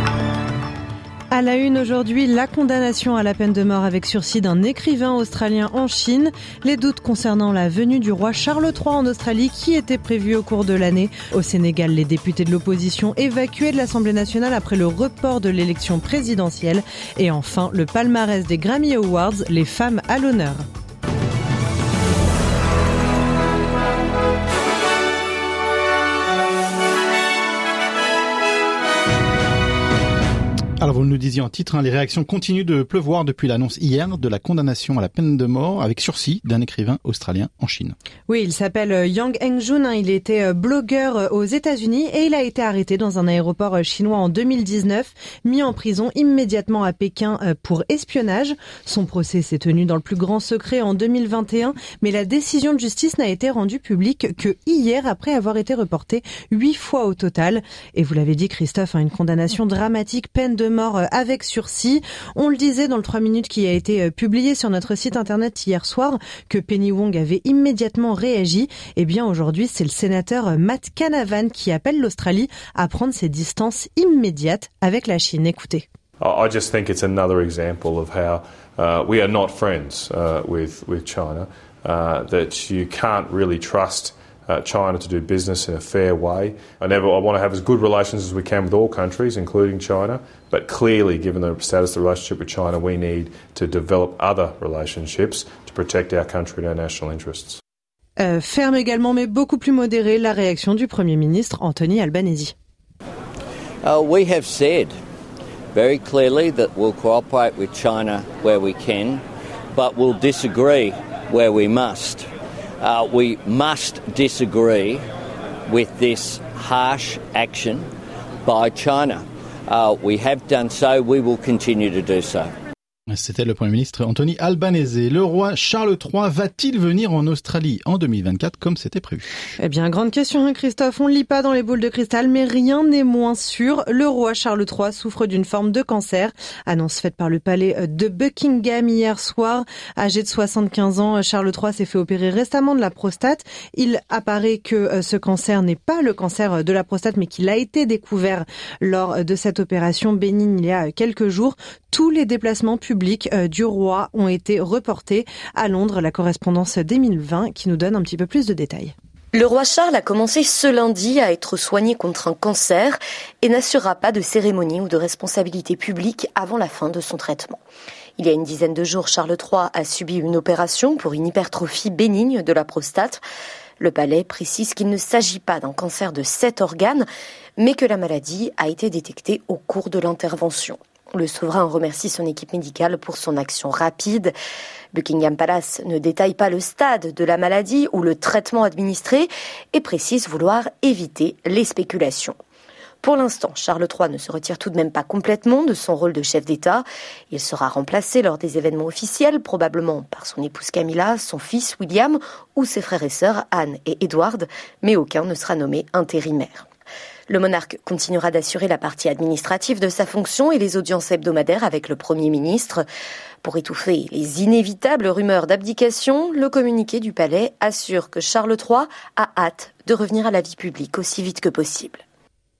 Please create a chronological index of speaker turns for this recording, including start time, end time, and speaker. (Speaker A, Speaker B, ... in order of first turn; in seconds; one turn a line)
Speaker A: 1.3-20.6
Speaker B: 30.8-37.9
Speaker A: 38.3-75.8
Speaker C: 76.2-97.6
Speaker A: 98.2-102.5
Speaker D: 103.8-104.9
Speaker D: 105.7-109.2
Speaker D: 109.7-112.3
Speaker D: 112.8-115.0
Speaker D: 115.7-117.8
Speaker D: 118.4-122.5
Speaker B: 123.1-129.3
Speaker A: 129.6-158.9
Speaker E: 159.3-167.6
Speaker E: 168.2-173.2
Speaker E: 173.8-184.3
Speaker E: 184.9-192.4
Speaker E: 193.0-206.7
Speaker E: 207.3-212.8
Speaker E: 213.4-222.0